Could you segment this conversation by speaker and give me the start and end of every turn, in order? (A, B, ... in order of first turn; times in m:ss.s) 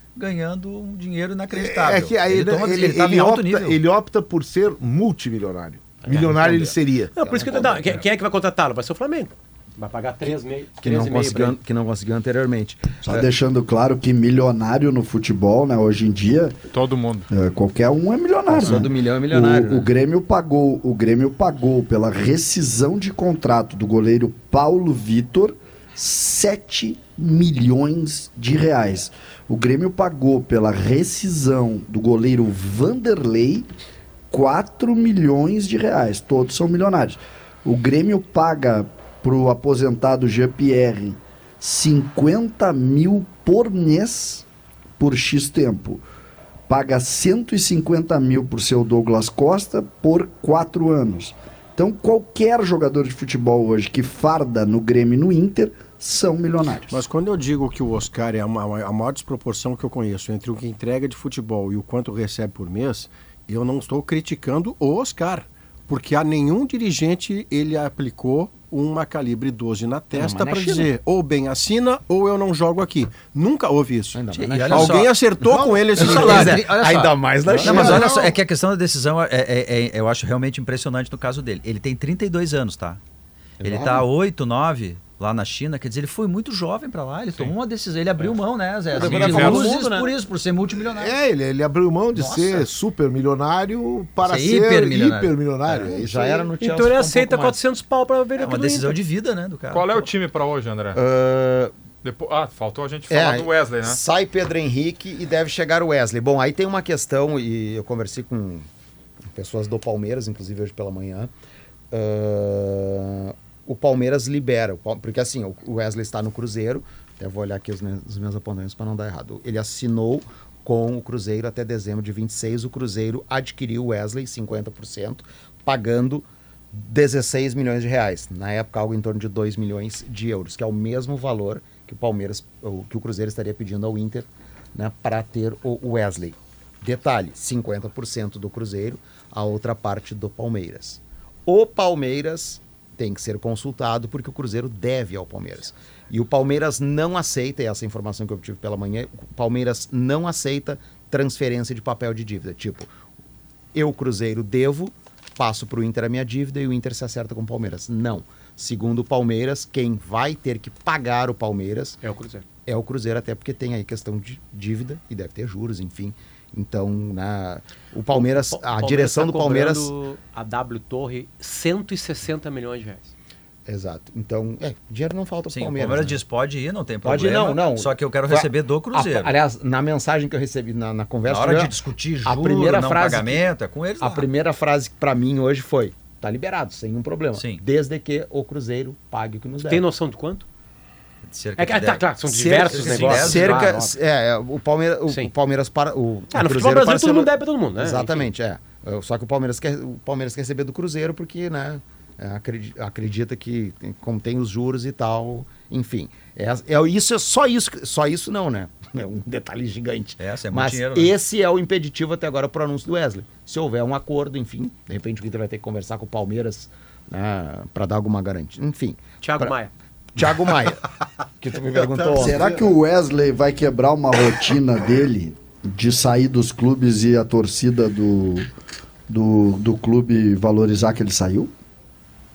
0:00.2-0:03.8 A
0:01.5-0:07.1 B
0:06.0-0:11.6 C
0:07.2-0:08.0 D
0:10.8-0:13.3 D
0:13.0-0:16.6 E
0:16.7-0:17.2 F
0:17.3-0:33.7 E
0:18.5-0:19.9 D
0:34.3-0:44.4 E
0:45.0-0:46.0 E
0:46.7-0:57.0 E
0:56.9-1:16.7 G
1:10.1-1:10.9 D
1:14.1-1:18.3 D
1:14.3-1:15.1 A
1:16.0-1:23.0 A
1:17.5-1:18.3 B
1:23.6-1:31.1 A
1:23.6-1:24.0 D
1:28.9-1:30.1 D
1:29.0-1:29.4 B
1:29.0-1:29.7 F
1:30.9-1:36.5 B
1:32.2-1:32.6 D
1:34.2-1:35.9 A
1:35.7-1:37.6 D
1:36.6-1:39.0 C
1:38.4-1:40.1 A
1:39.7-1:41.0 F
1:40.9-1:41.7 D
1:42.0-1:44.0 F
1:43.1-1:48.7 D
1:49.3-1:51.3 D
1:51.9-2:32.9 D
2:33.7-2:42.0 D
2:42.0-2:42.4 C
2:42.6-2:49.9 D
2:48.1-2:53.1 C
2:53.7-2:56.2 D
2:55.5-2:59.3 A
2:57.0-3:03.4 D
3:01.2-3:04.3 A
3:04.0-3:09.8 D
3:07.3-3:07.6 A
3:09.6-3:10.4 C
3:11.3-3:13.8 A
3:11.6-3:13.9 C
3:12.2-3:39.5 D
3:16.3-3:18.3 C
3:30.2-3:31.1 A
3:39.2-3:39.7 C
3:40.2-3:40.8 D
3:41.4-3:42.7 D
3:42.1-3:48.5 E
3:49.1-3:51.5 E